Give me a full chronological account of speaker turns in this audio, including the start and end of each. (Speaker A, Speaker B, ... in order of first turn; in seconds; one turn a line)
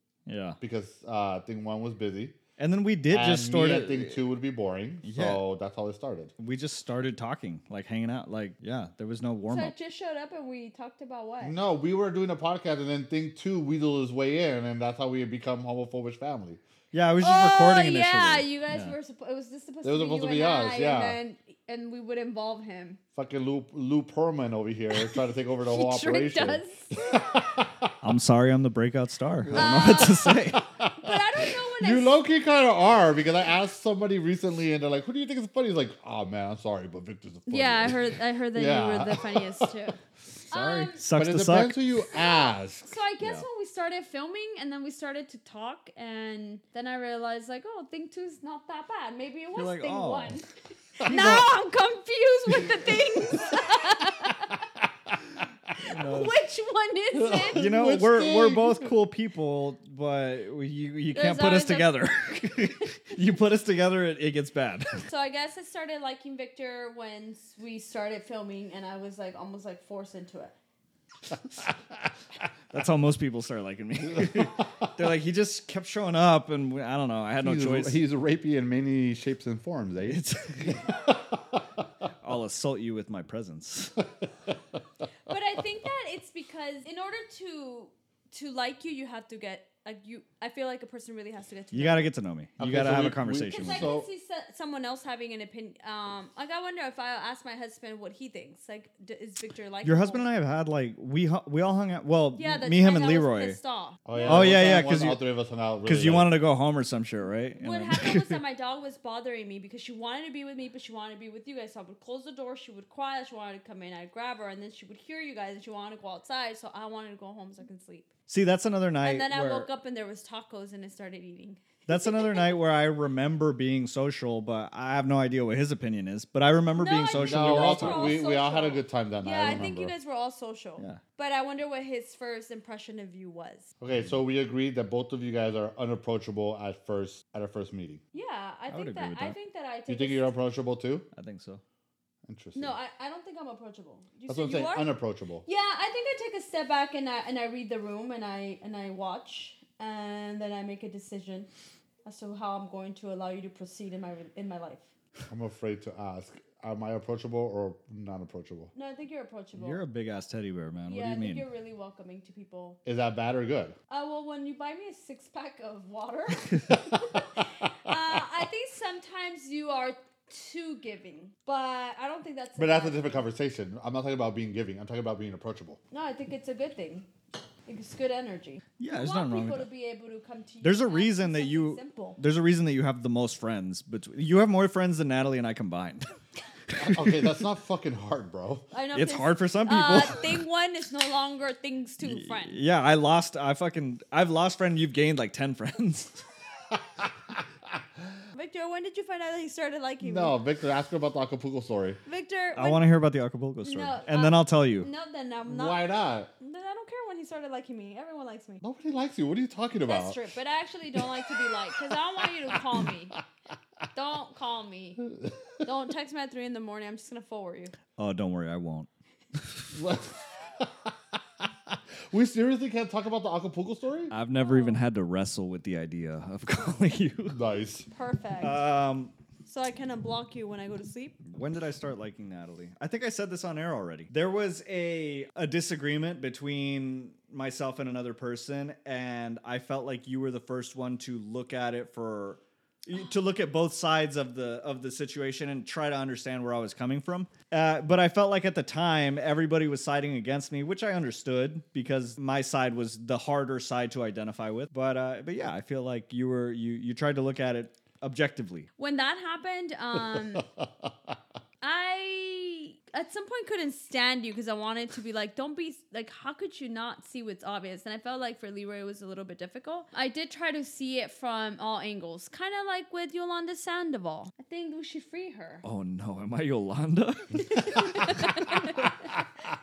Speaker A: 0.2-0.6
Speaker B: 0.6-2.4
Speaker A: 2.6-4.2
Speaker B: 3.1-6.3
Speaker A: 5.0-5.4
Speaker A: 6.4-9.7
Speaker C: 9.5-11.6
Speaker B: 11.4-16.6
Speaker A: 16.9-18.9
Speaker C: 17.2-23.0
Speaker B: 19.8-21.2
Speaker B: 23.1-27.9
Speaker C: 24.9-27.2
Speaker A: 28.0-30.6
Speaker B: 29.4-39.7
Speaker C: 29.5-32.1
Speaker C: 37.5-40.0
Speaker A: 40.5-41.8
Speaker C: 40.5-41.0
Speaker B: 41.1-42.9
Speaker C: 42.1-50.5
Speaker A: 43.2-43.4
Speaker A: 49.5-50.4
Speaker C: 51.0-54.6
Speaker A: 51.0-51.5
Speaker A: 55.8-56.3
Speaker C: 55.9-57.8
Speaker B: 57.1-58.9
Speaker A: 57.5-65.0
Speaker C: 61.1-63.2
Speaker C: 65.0-70.5
Speaker A: 72.7-78.0
Speaker B: 77.4-81.6
Speaker A: 80.0-80.8
Speaker A: 82.2-84.0
Speaker C: 85.3-92.1
Speaker A: 91.7-93.9
Speaker B: 92.6-94.1
Speaker C: 93.5-100.2
Speaker A: 99.8-103.6
Speaker C: 102.3-104.6
Speaker B: 104.0-106.3
Speaker A: 104.2-105.2
Speaker A: 105.8-108.4
Speaker C: 107.6-118.1
Speaker A: 118.3-119.7
Speaker C: 119.0-122.5
Speaker A: 121.9-128.2
Speaker C: 126.7-133.7
Speaker B: 127.1-129.9
Speaker B: 133.8-138.0
Speaker C: 138.1-140.3
Speaker A: 138.7-139.3
Speaker B: 139.9-141.0
Speaker A: 141.1-141.6
Speaker B: 142.2-142.7
Speaker C: 142.5-144.9
Speaker B: 144.3-145.4
Speaker C: 145.4-151.5
Speaker C: 152.0-154.8
Speaker B: 155.3-158.7
Speaker C: 158.7-159.8
Speaker A: 159.6-161.4
Speaker C: 160.9-162.8
Speaker B: 162.8-163.8
Speaker C: 163.9-173.2
Speaker B: 172.6-175.8
Speaker C: 175.9-177.1
Speaker C: 177.7-182.2
Speaker A: 178.8-179.7
Speaker A: 180.6-186.1
Speaker A: 186.7-187.3
Speaker B: 186.8-188.7
Speaker C: 188.7-192.6
Speaker A: 188.9-190.2
Speaker A: 192.0-196.2
Speaker C: 198.3-200.4
Speaker B: 200.0-202.0
Speaker C: 202.1-203.0
Speaker A: 202.5-204.9
Speaker C: 203.6-208.6
Speaker B: 205.4-206.3
Speaker B: 208.6-210.2
Speaker C: 209.9-213.2
Speaker B: 212.5-212.9
Speaker C: 213.9-215.0
Speaker B: 215.1-215.6
Speaker C: 215.6-217.7
Speaker A: 218.0-219.7
Speaker B: 219.7-224.1
Speaker A: 224.1-227.4
Speaker C: 224.3-224.8
Speaker B: 227.3-227.9
Speaker C: 227.9-228.6
Speaker A: 228.4-229.1
Speaker C: 229.4-231.2
Speaker A: 231.3-258.7
Speaker C: 258.8-260.4
Speaker B: 260.4-260.9
Speaker C: 261.6-275.6
Speaker A: 275.6-278.9
Speaker C: 277.6-279.1